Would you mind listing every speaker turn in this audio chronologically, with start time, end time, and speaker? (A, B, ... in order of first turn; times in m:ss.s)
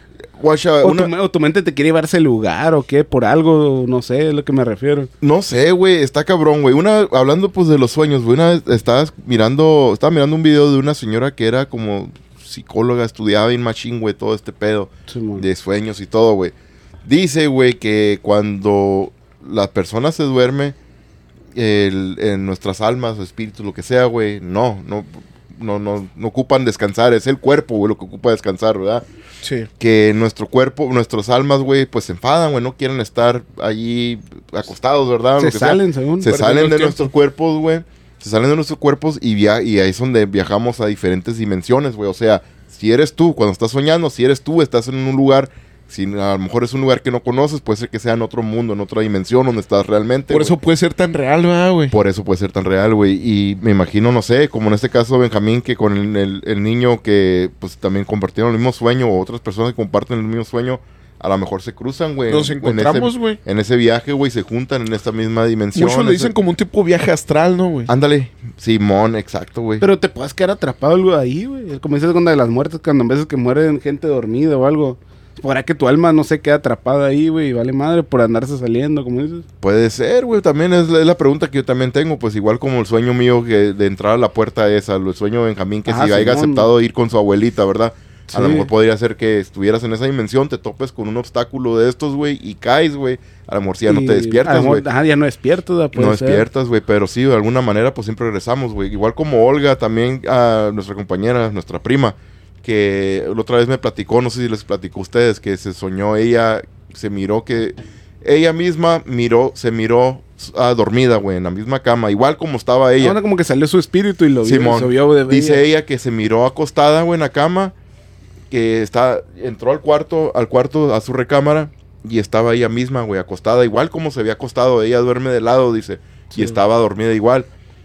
0:00.4-0:01.1 A
0:00.8-0:05.1 B
0:05.2-0:16.5 A
0:15.1-0:15.5 B
0:17.0-0:20.8 A
0:21.5-0:29.0 A
0:29.4-0:29.7 C
0:29.8-0:50.6 A
0:35.4-0:36.8 B
0:36.4-0:37.0 C
0:50.3-0:52.0 C
0:51.9-1:06.3 A
1:02.3-1:03.4 C
1:05.8-1:07.9 C
1:07.9-1:09.8 A
1:09.8-1:19.5 B
1:19.6-1:34.9 A
1:25.8-1:26.7 B
1:28.3-1:28.7 B
1:33.9-1:36.5 B
1:35.9-1:53.2 A
1:53.0-1:55.6 B
1:54.4-1:57.7 A
1:58.5-2:07.5 A